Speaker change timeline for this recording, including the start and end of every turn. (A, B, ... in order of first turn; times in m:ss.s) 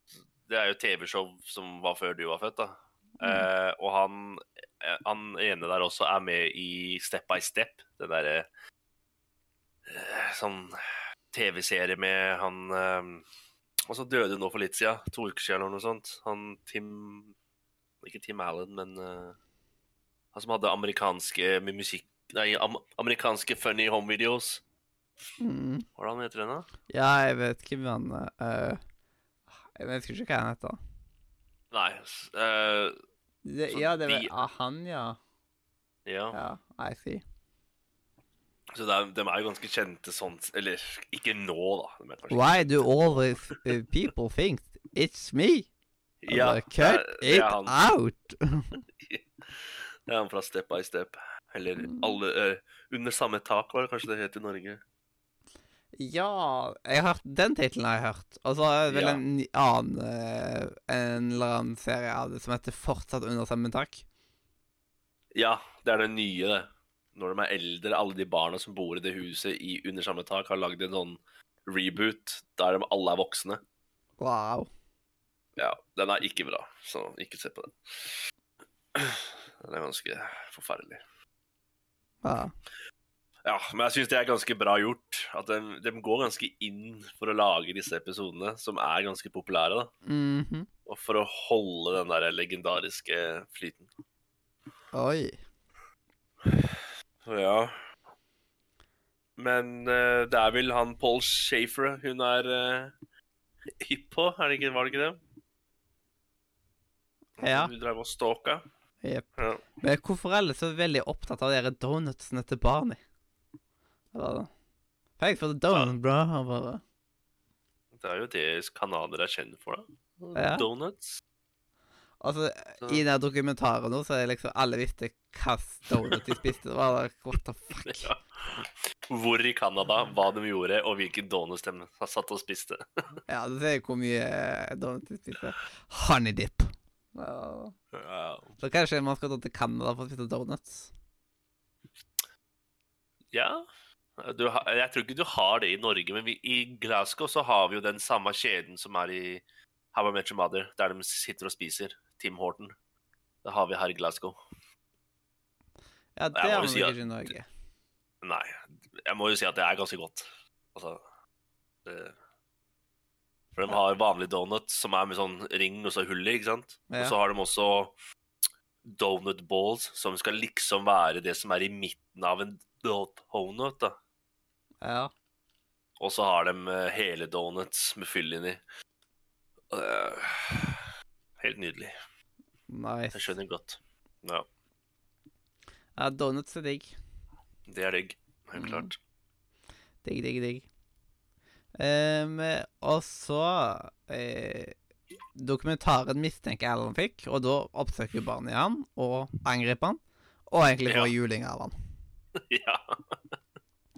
0:00.5-0:08.4 A
0:03.2-0:03.5 B
0:09.9-0:10.8 A
0:11.3-0:13.2 A
0:13.9-0:17.3 A
0:18.0-0:19.4 A
0:20.3-0:24.6 A
0:25.4-0:25.8 B
0:26.0-0:26.7 A
0:26.9-0:28.8 B
0:29.7-0:30.8 B
0:31.7-0:32.9 A
0:33.4-0:35.2 B
0:33.7-0:34.3 A
0:36.0-0:36.4 A
0:36.3-0:37.2 B
0:38.7-0:43.6 A
0:42.3-0:45.7 B
0:46.2-0:47.8 A
0:46.3-0:48.7 B
0:49.0-0:54.8 A
0:51.8-0:52.1 B
0:56.0-1:04.0 B
0:58.9-0:59.2 A
1:05.3-1:13.6 A
1:14.2-1:14.7 B
1:15.6-1:18.1 A
1:18.9-1:21.0 A
1:22.2-1:22.5 B
1:23.4-1:29.9 A
1:30.0-1:30.7 B
1:30.9-1:33.9 A
1:34.9-1:35.4 B
1:37.2-1:37.7 A
1:39.4-1:42.9 A
1:43.8-1:45.2 A
1:47.4-1:47.7 B
1:47.4-1:48.6 A
1:49.0-1:53.0 B
1:54.1-1:54.5 B
1:55.2-1:56.8 B
1:58.0-2:01.2 A
2:00.3-2:00.7 B
2:02.2-2:08.1 B
2:07.9-2:13.1 A
2:13.3-2:17.7 B
2:17.9-2:18.5 A
2:18.6-2:20.9 B
2:23.3-2:23.6 A
2:24.2-2:32.7 A
2:33.4-2:34.4 A
2:36.2-2:37.5 B
2:36.3-2:37.1 A
2:38.2-2:41.0 A
2:41.8-2:42.1 A
2:43.6-2:47.9 A
2:46.9-2:47.2 B
2:48.9-2:53.9 A
2:54.8-2:55.1 B
2:56.0-2:58.6 A
2:59.7-3:00.9 A
3:01.4-3:01.9 A
3:02.7-3:03.3 B
3:03.1-3:04.4 A
3:06.0-3:07.0 B
3:07.7-3:09.0 A
3:08.6-3:08.9 B
3:10.0-3:10.7 B
3:11.8-3:14.8 B
3:15.3-3:21.7 B
3:20.8-3:21.1 A
3:22.5-3:23.2 A